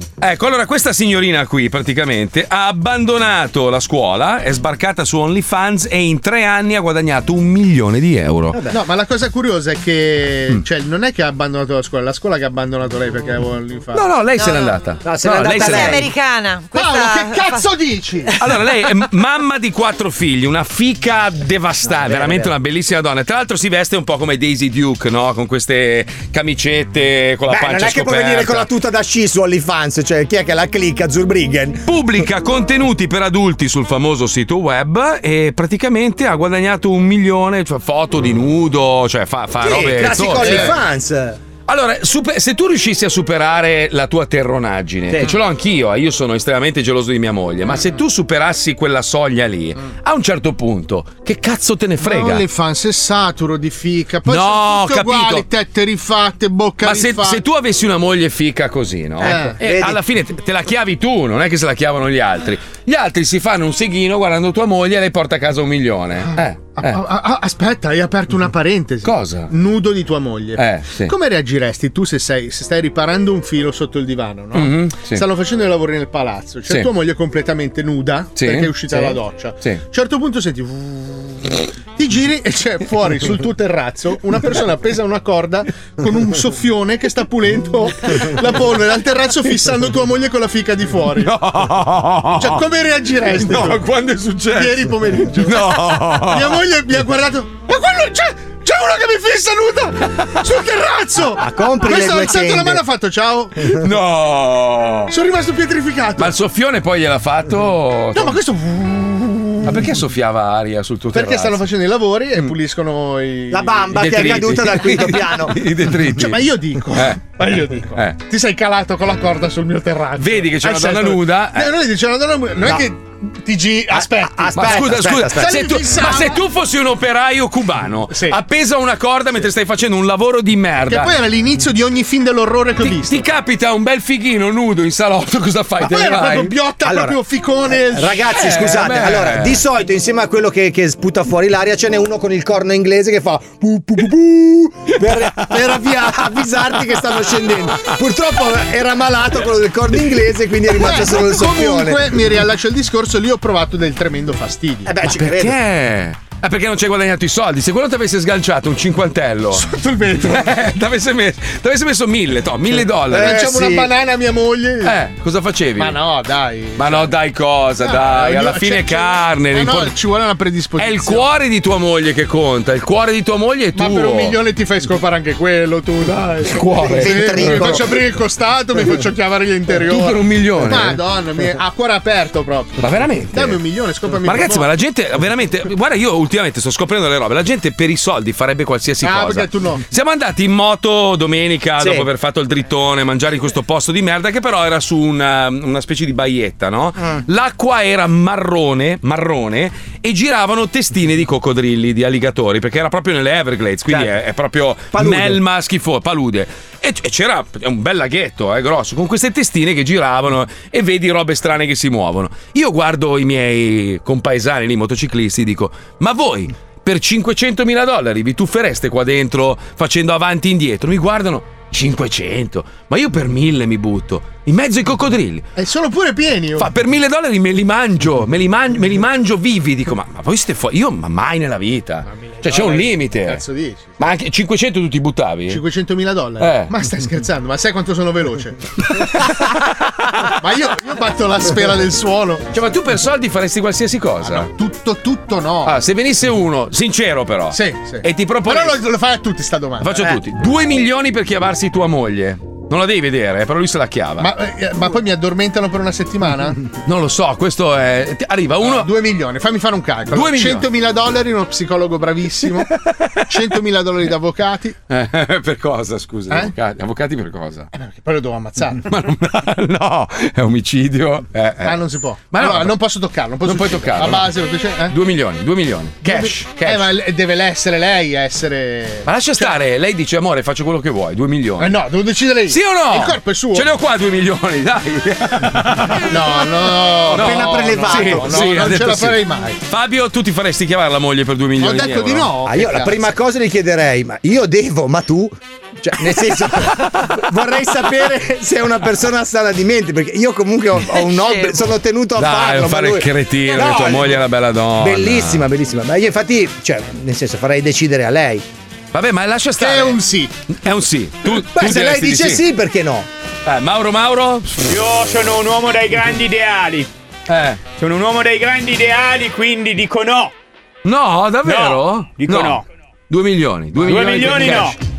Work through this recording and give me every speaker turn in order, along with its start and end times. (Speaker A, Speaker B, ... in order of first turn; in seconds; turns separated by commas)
Speaker A: 0.2-8.6, Speaker B: 8.5-8.8, Speaker C: 8.7-14.1, Speaker A: 13.9-16.1, Speaker B: 15.0-16.1, Speaker D: 15.4-17.7, Speaker C: 16.7-18.3, Speaker A: 18.4-28.7, Speaker B: 21.9-22.5, Speaker B: 27.5-31.8, Speaker A: 31.9-40.8, Speaker B: 39.6-41.4, Speaker C: 40.4-40.7, Speaker A: 41.7-52.4, Speaker B: 45.1-45.4, Speaker C: 52.0-57.4, Speaker A: 54.3-55.4, Speaker A: 56.8-67.0, Speaker B: 59.2-60.0, Speaker C: 59.2-59.5, Speaker C: 66.2-91.3, Speaker A: 69.0-69.5, Speaker A: 70.6-71.1, Speaker A: 74.5-75.2, Speaker A: 78.3-79.0, Speaker A: 91.2-92.6, Speaker C: 92.3-93.8, Speaker A: 93.3-96.6, Speaker C: 94.5-103.7, Speaker B: 101.4-102.8, Speaker A: 103.7-105.1, Speaker C: 105.1-106.3, Speaker A: 106.2-108.4, Speaker C: 108.1-109.8, Speaker A: 109.6-111.7, Speaker C: 111.1-113.9, Speaker B: 113.5-115.5, Speaker A: 113.9-118.2, Speaker C: 116.2-124.8, Speaker A: 120.2-121.7, Speaker B: 123.9-125.5, Speaker A: 124.5-131.1, Speaker C: 125.3-126.4, Speaker C: 128.1-128.4, Speaker C: 130.9-133.2, Speaker A: 132.8-136.6, Speaker C: 135.8-138.2, Speaker B: 136.8-137.2, Speaker B: 137.9-152.1, Speaker A: 138.3-139.6, Speaker C: 150.7-154.9, Speaker B: 154.8-155.6, Speaker A: 155.0-163.6, Speaker C: 159.5-160.6, Speaker B: 163.1-163.9, Speaker C: 163.1-165.0, Speaker A: 164.8-166.0, Speaker C: 165.8-167.1, Speaker A: 166.8-169.9, Speaker C: 167.8-171.3, Speaker A: 170.8-174.4, Speaker C: 173.7-184.7, Speaker A: 176.4-177.9, Speaker B: 176.8-177.8, Speaker A: 179.8-181.0, Speaker A: 182.8-183.6, Speaker A: 184.2-225.5, Speaker C: 189.0-189.8, Speaker B: 191.8-192.1, Speaker B: 204.9-205.4, Speaker C: 225.6-226.7, Speaker A: 226.6-233.4, Speaker C: 232.1-233.9, Speaker A: 234.0-235.6, Speaker C: 235.5-238.6, Speaker A: 236.4-236.7, Speaker A: 239.0-239.4, Speaker C: 240.3-242.4, Speaker A: 242.5-244.5, Speaker C: 244.2-245.8, Speaker A: 245.6-248.8, Speaker C: 247.5-250.1, Speaker A: 249.8-254.3, Speaker C: 254.2-256.6, Speaker A: 256.8-258.9, Speaker C: 258.6-262.7, Speaker A: 260.1-260.6, Speaker A: 262.9-263.2, Speaker C: 263.3-264.8, Speaker A: 264.9-267.7, Speaker C: 267.8-268.8, Speaker A: 268.9-271.8, Speaker C: 271.6-274.9, Speaker A: 272.3-272.8, Speaker A: 273.4-274.3, Speaker A: 274.9-276.9, Speaker C: 276.0-279.6, Speaker A: 279.0-281.8, Speaker C: 281.6-283.7, Speaker A: 282.5-286.1, Speaker C: 286.1-289.6, Speaker A: 287.1-292.3, Speaker B: 287.1-288.6, Speaker C: 291.6-293.1, Speaker B: 292.4-304.1, Speaker D: 301.1-301.7, Speaker A: 302.2-305.5, Speaker B: 304.8-308.4, Speaker A: 308.9-312.4, Speaker C: 309.6-310.3, Speaker B: 311.3-313.1, Speaker A: 313.4-314.6, Speaker E: 314.6-316.9, Speaker A: 317.3-317.6, Speaker E: 317.8-320.3, Speaker A: 320.8-324.8, Speaker E: 321.4-322.6, Speaker E: 323.8-324.8